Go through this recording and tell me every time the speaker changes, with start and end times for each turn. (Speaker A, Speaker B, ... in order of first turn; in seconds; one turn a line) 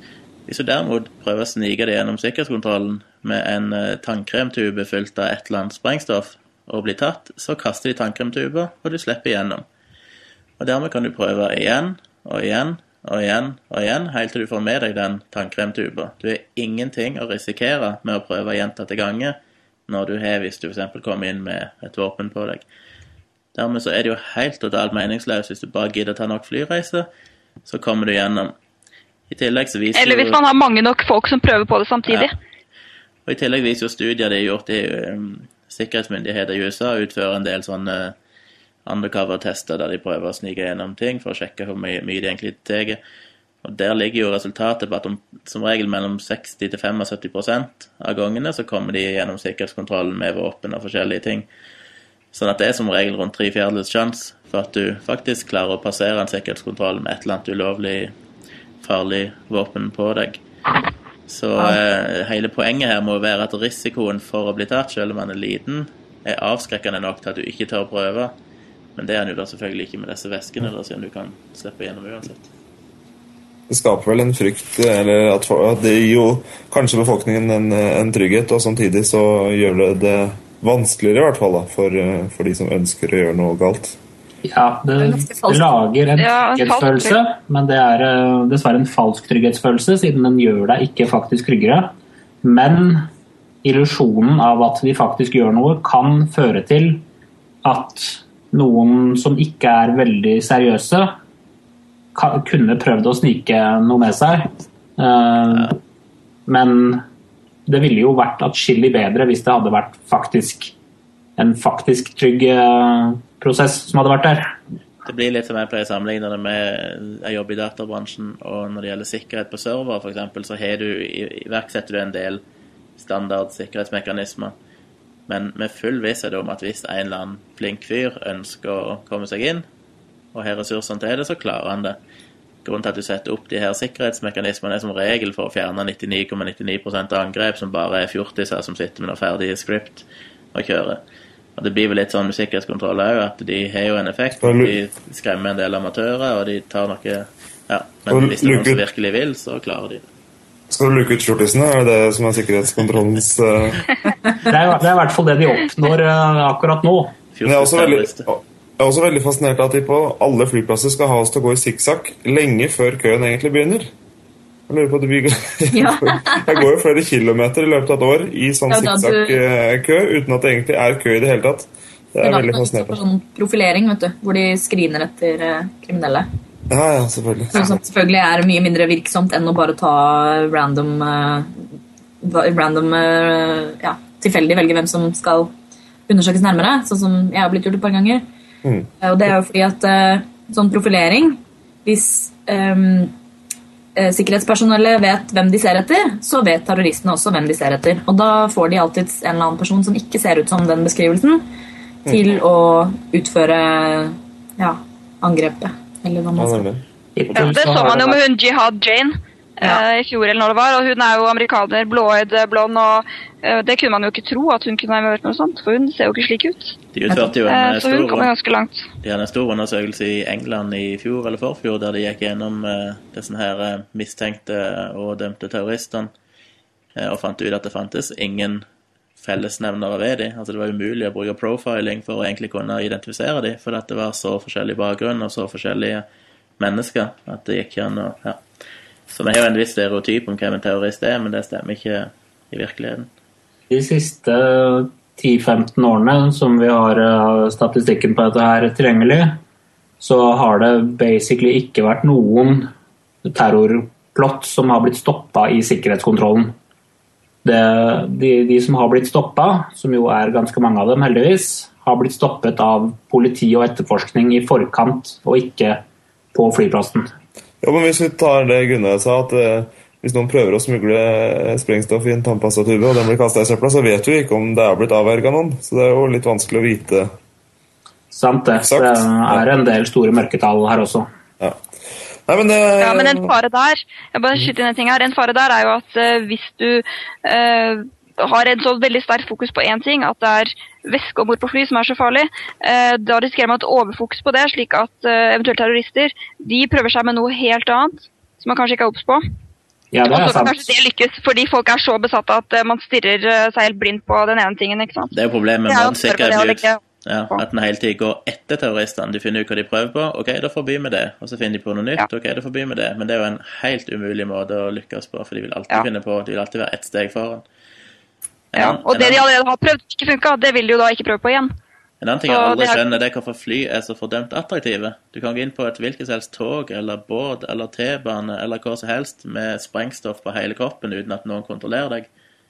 Speaker A: 0.5-9.7
Speaker A: 10.6-19.4
Speaker A: 19.9-22.6
Speaker A: 23.6-27.1
Speaker A: 27.7-28.6
Speaker A: 29.3-30.4
Speaker B: 29.9-32.4
Speaker A: 33.3-38.1
Speaker A: 38.9-43.0
Speaker A: 43.6-51.5
Speaker A: 52.3-58.1
Speaker A: 58.8-60.4
Speaker A: 61.3-68.3
Speaker A: 69.0-72.5
Speaker C: 73.7-84.0
Speaker D: 84.4-91.9
Speaker E: 85.0-85.7
Speaker B: 86.2-87.2
Speaker D: 92.4-93.1
Speaker D: 93.6-97.0
Speaker D: 97.6-101.1
Speaker D: 102.2-105.8
Speaker D: 106.5-107.0
Speaker D: 107.7-110.7
Speaker D: 111.4-114.5
Speaker A: 115.0-122.4
Speaker A: 123.0-124.5
Speaker A: 125.3-129.7
Speaker A: 130.3-132.0
Speaker A: 132.7-141.0
Speaker A: 141.6-150.1
Speaker C: 144.4-144.8
Speaker C: 148.1-148.8
Speaker C: 150.7-153.9
Speaker D: 154.4-157.2
Speaker A: 157.3-158.3
Speaker C: 157.4-163.9
Speaker C: 164.7-173.0
Speaker E: 165.7-166.6
Speaker E: 168.7-169.4
Speaker E: 172.2-176.3
Speaker C: 176.7-177.8
Speaker E: 177.5-181.7
Speaker E: 182.2-185.5
Speaker E: 186.1-188.2
Speaker E: 189.0-193.1
Speaker E: 194.0-201.4
Speaker E: 202.1-206.6
Speaker C: 206.4-206.8
Speaker D: 207.2-208.2
Speaker B: 207.3-216.8
Speaker A: 216.9-218.3
Speaker B: 217.4-218.9
Speaker A: 219.0-226.1
Speaker A: 227.0-228.6
Speaker A: 229.2-236.1
Speaker A: 236.6-238.4
Speaker A: 239.1-243.1
Speaker D: 243.7-249.4
Speaker D: 250.0-252.7
Speaker D: 253.2-256.6
Speaker D: 257.4-265.8
Speaker D: 266.3-267.1
Speaker C: 267.6-277.1
Speaker D: 278.1-281.1
Speaker C: 278.6-279.4
Speaker C: 282.3-283.3
Speaker B: 282.8-299.2
Speaker D: 299.9-300.7
Speaker B: 300.1-305.1
Speaker A: 305.1-317.4
Speaker B: 305.7-306.8
Speaker A: 318.5-319.3
Speaker B: 318.6-321.5
Speaker A: 322.0-332.1
Speaker B: 322.3-322.8